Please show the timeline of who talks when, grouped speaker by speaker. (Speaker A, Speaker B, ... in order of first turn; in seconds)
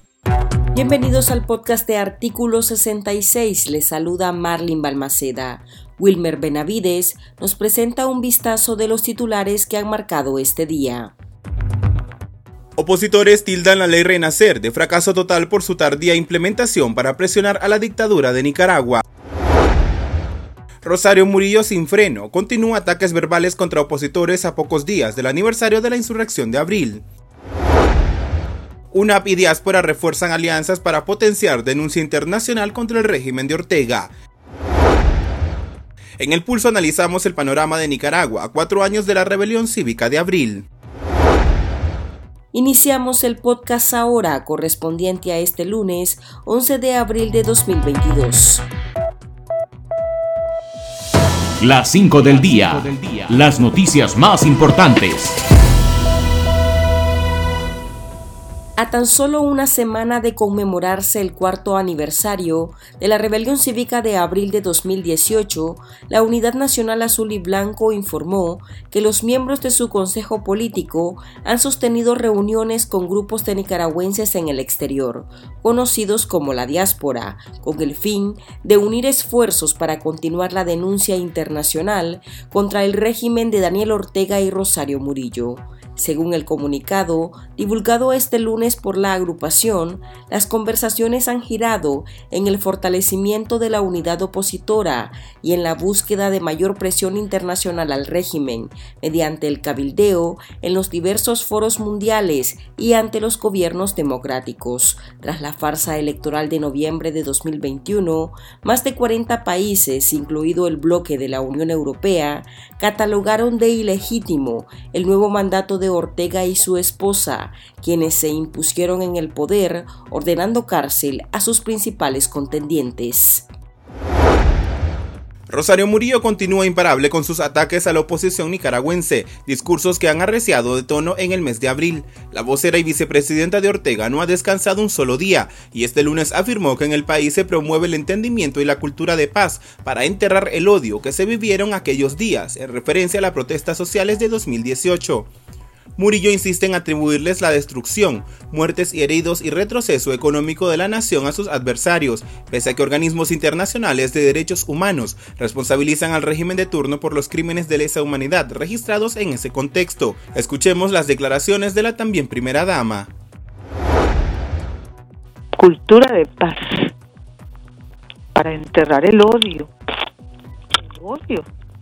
Speaker A: 0.7-11.1, 42.5-48.7, 58.8-123.5
Speaker B: 12.8-19.0, 20.8-27.0, 28.9-34.1, 36.2-40.7, 125.5-145.3, 146.0-163.1
Speaker C: 51.6-55.4
Speaker D: 165.5-166.9, 168.3-169.7, 170.8-171.5